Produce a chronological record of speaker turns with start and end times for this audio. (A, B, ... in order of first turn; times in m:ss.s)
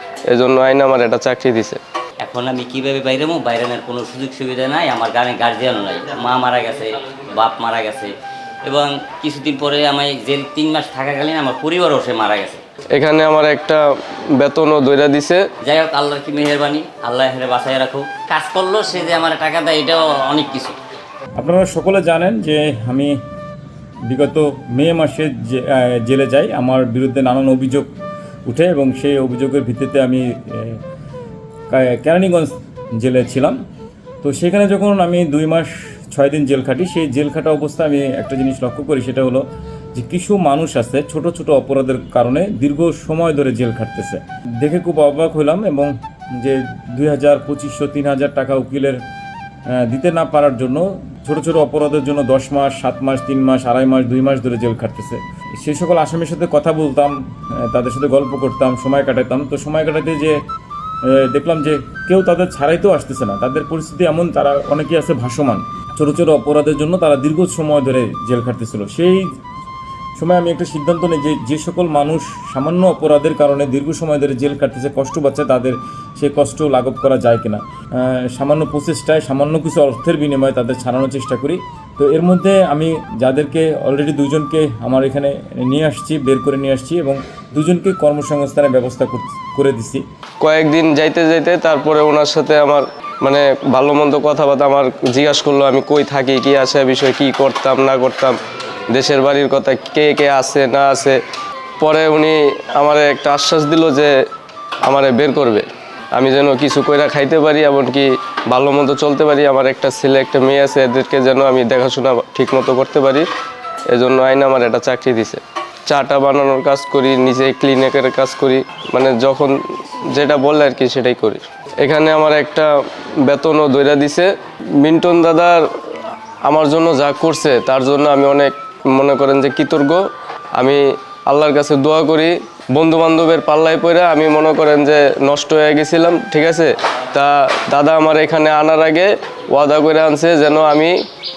0:00.3-0:01.8 A
0:02.2-0:08.1 B
0:08.6-0:12.6 B
0:12.9-0:13.8 A
0:14.4-0:15.4 A
0:15.6-0:20.8 B
0:21.4-0:23.2 C
0:24.1-0:27.9 C
0:28.5-0:30.8 C
0:31.7-0:33.6 C
0:34.2-0:49.0 C
0:49.8-0:57.2 C
0:57.7-1:00.4 C
1:01.1-1:09.3 C
1:10.2-1:30.0 C
1:30.4-1:38.4 A
1:38.9-1:41.2 A
1:41.8-1:44.1 A
1:44.8-1:53.2 A
1:53.9-1:59.6 A
2:00.1-2:02.7 A
2:03.2-2:05.6 A
2:06.4-2:21.0 A